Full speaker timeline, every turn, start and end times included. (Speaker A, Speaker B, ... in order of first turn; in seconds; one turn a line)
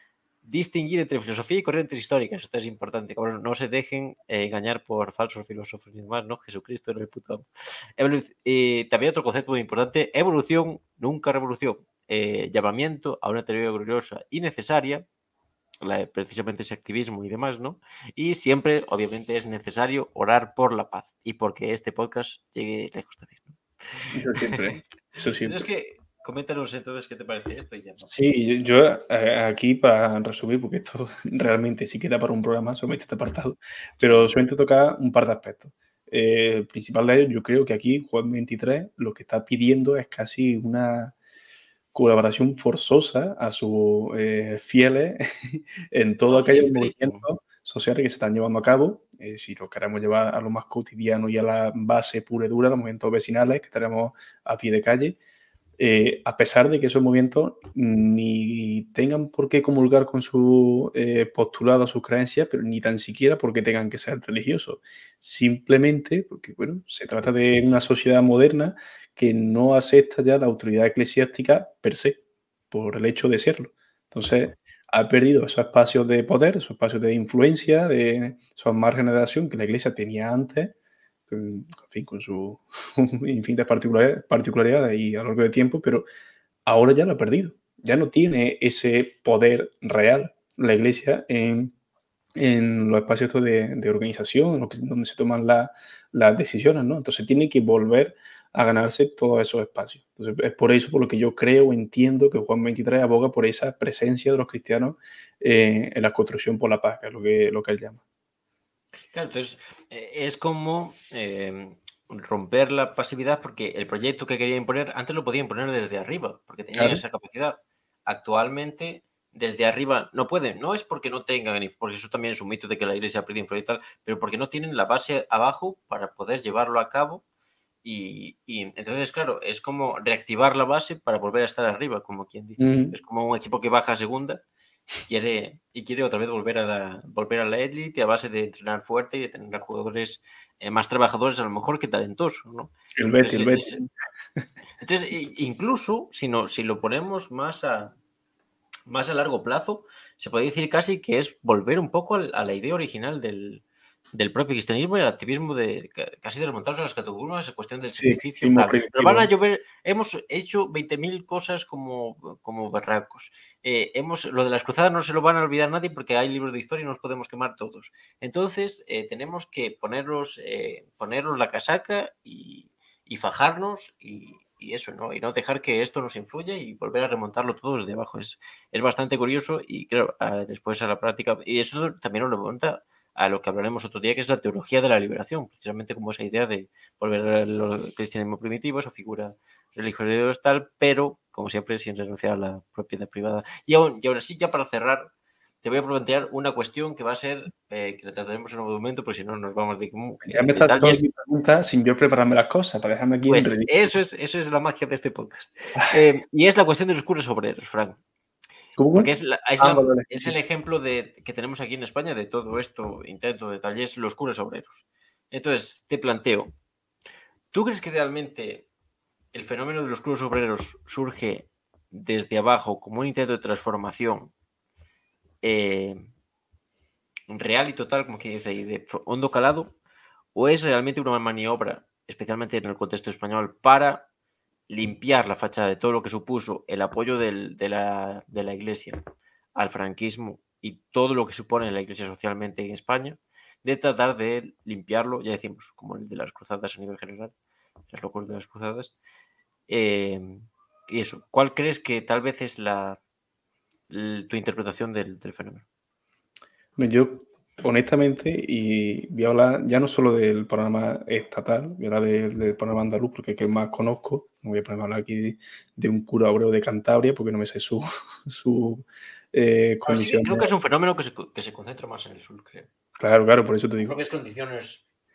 Speaker A: 0.4-15.1
Speaker A: 15.8-24.8
Speaker B: 24.1-25.6
Speaker A: 25.4-28.1
Speaker B: 28.0-41.1
Speaker A: 34.0-34.3
Speaker B: 41.9-55.2
Speaker A: 46.3-47.2
Speaker B: 55.8-80.7
Speaker B: 81.3-86.1
Speaker B: 86.7-91.7
Speaker B: 92.3-108.0
Speaker A: 109.1-127.2
Speaker B: 116.8-117.0
Speaker A: 127.8-134.4
Speaker B: 132.6-132.9
Speaker A: 135.1-143.8
Speaker B: 142.9-143.9
Speaker A: 144.8-147.9
Speaker A: 148.9-195.1
Speaker B: 158.0-159.3
Speaker A: 195.6-201.0
Speaker B: 200.3-203.9
Speaker A: 203.3-208.0
Speaker B: 208.8-210.3
Speaker A: 208.9-216.5
Speaker A: 217.5-218.7
Speaker A: 219.3-224.3
Speaker A: 225.4-226.0
Speaker A: 227.3-229.7
Speaker A: 230.3-234.1
Speaker A: 234.7-239.0
Speaker A: 239.6-247.3
Speaker A: 247.9-248.9
Speaker A: 249.7-253.0
Speaker A: 253.9-255.6
Speaker B: 256.8-270.5
Speaker A: 269.9-272.7
Speaker B: 273.0-273.9
Speaker A: 273.8-274.8